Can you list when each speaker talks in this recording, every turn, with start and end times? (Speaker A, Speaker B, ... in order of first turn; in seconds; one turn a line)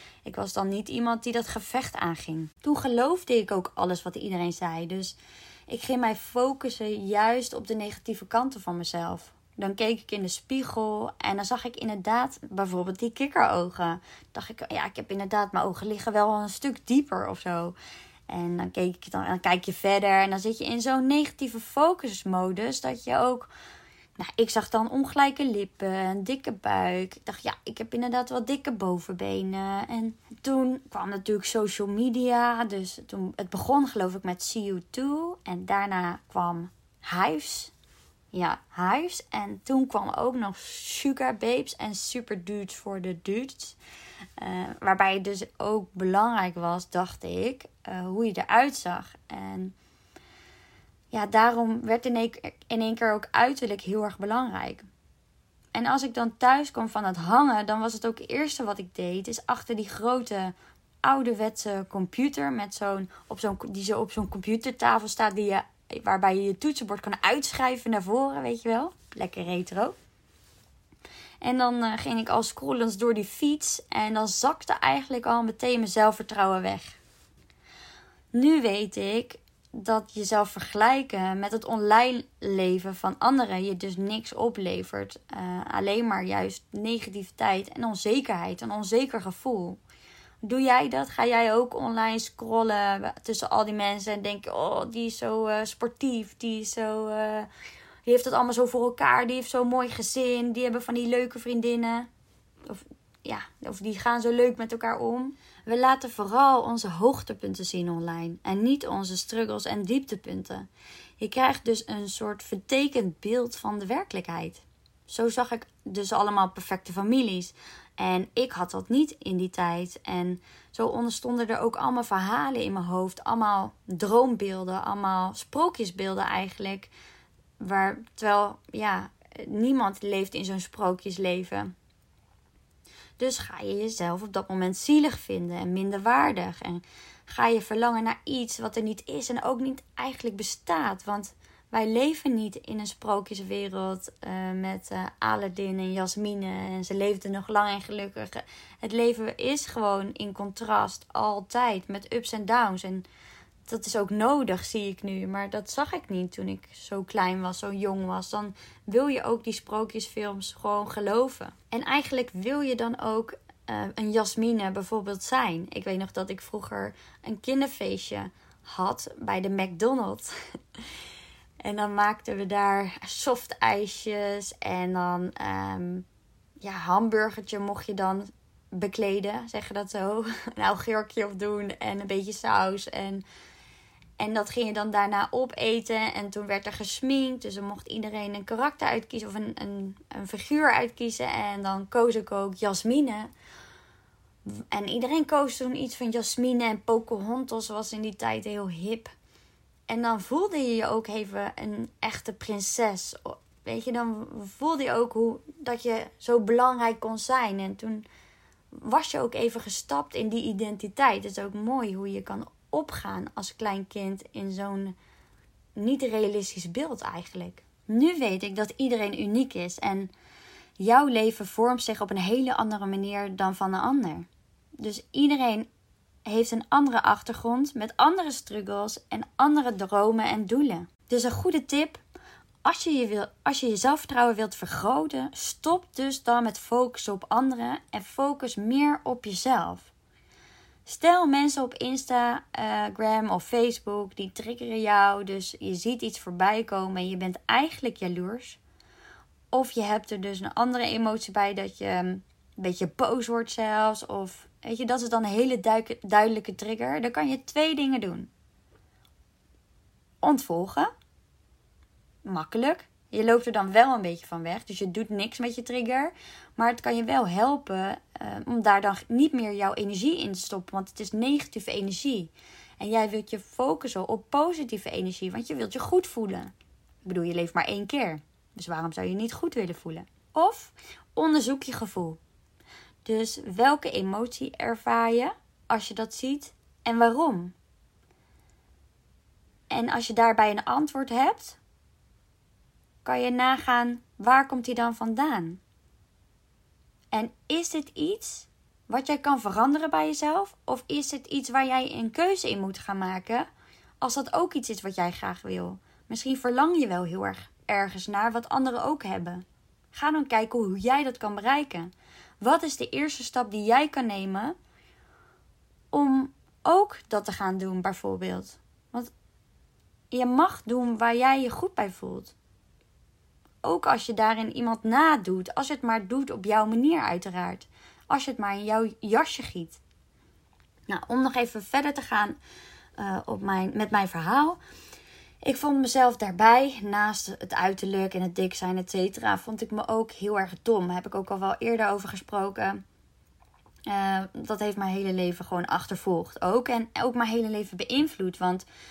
Speaker A: 0.2-17.8
Speaker A: 18.3-23.5
Speaker A: 24.2-37.7
Speaker A: 38.3-43.8
Speaker A: 44.4-49.8
Speaker A: 51.1-54.9
Speaker A: 55.7-69.9
Speaker A: 71.4-77.0
Speaker A: 78.3-89.8
Speaker A: 90.4-97.5
Speaker A: 98.1-102.1
Speaker A: 102.7-110.7
Speaker A: 111.2-126.9
Speaker A: 127.6-131.7
Speaker A: 133.2-153.1
Speaker A: 153.7-170.3
Speaker A: 171.6-176.1
Speaker A: 176.6-183.2
Speaker A: 184.2-193.3
Speaker A: 194.5-199.1
Speaker A: 199.9-208.1
Speaker A: 208.7-215.0
Speaker A: 215.8-220.1
Speaker A: 220.8-224.3
Speaker A: 224.8-225.7
Speaker A: 226.3-232.0
Speaker A: 232.7-239.9
Speaker A: 240.9-248.6
Speaker A: 249.5-258.3
Speaker A: 260.2-260.9
Speaker A: 262.2-276.5
Speaker A: 277.1-282.2
Speaker A: 283.1-287.5
Speaker A: 289.7-291.6
Speaker A: 293.0-295.6
Speaker A: 297.1-303.5
Speaker A: 304.0-314.6
Speaker A: 315.9-319.1
Speaker A: 320.1-322.3
Speaker A: 323.6-329.8
Speaker A: 330.9-332.4
Speaker A: 333.0-334.6
Speaker A: 335.4-342.8
Speaker A: 343.9-348.6